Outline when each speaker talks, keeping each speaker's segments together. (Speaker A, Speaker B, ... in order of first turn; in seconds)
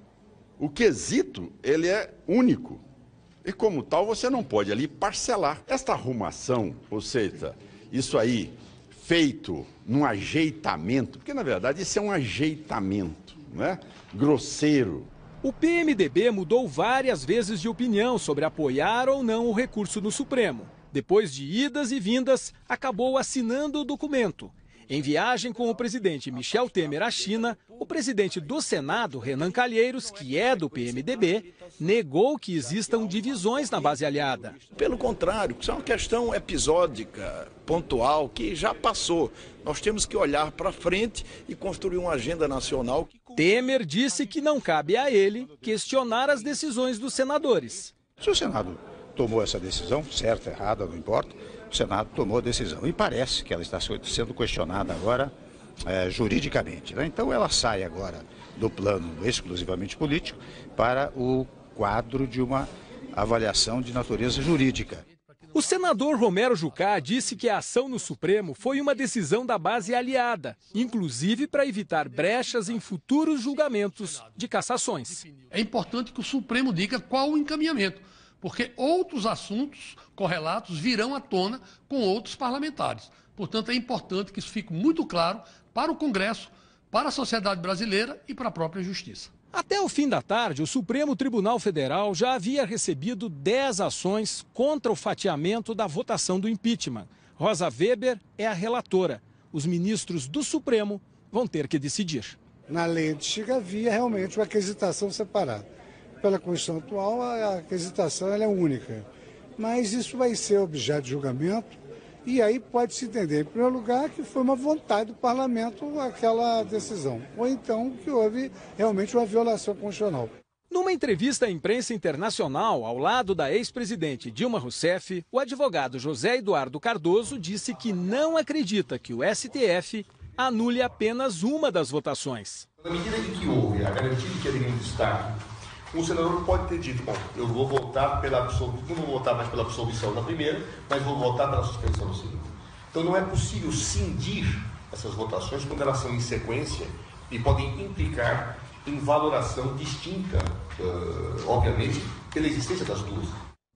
Speaker A: 0.6-2.8, 3.4-15.1
Speaker B: 15.4-34.6, 43.3-47.9, 65.5-75.2, 89.5-102.4, 120.7-132.7
Speaker C: 33.5-34.0, 34.6-43.2
Speaker D: 48.2-55.3, 55.9-65.0
Speaker E: 65.0-66.1, 66.9-67.2, 72.3-72.6, 73.4-74.4, 75.1-89.2
Speaker F: 102.7-105.7, 106.2-109.0, 109.6-120.3
Speaker G: 132.8-135.3, 135.9-153.4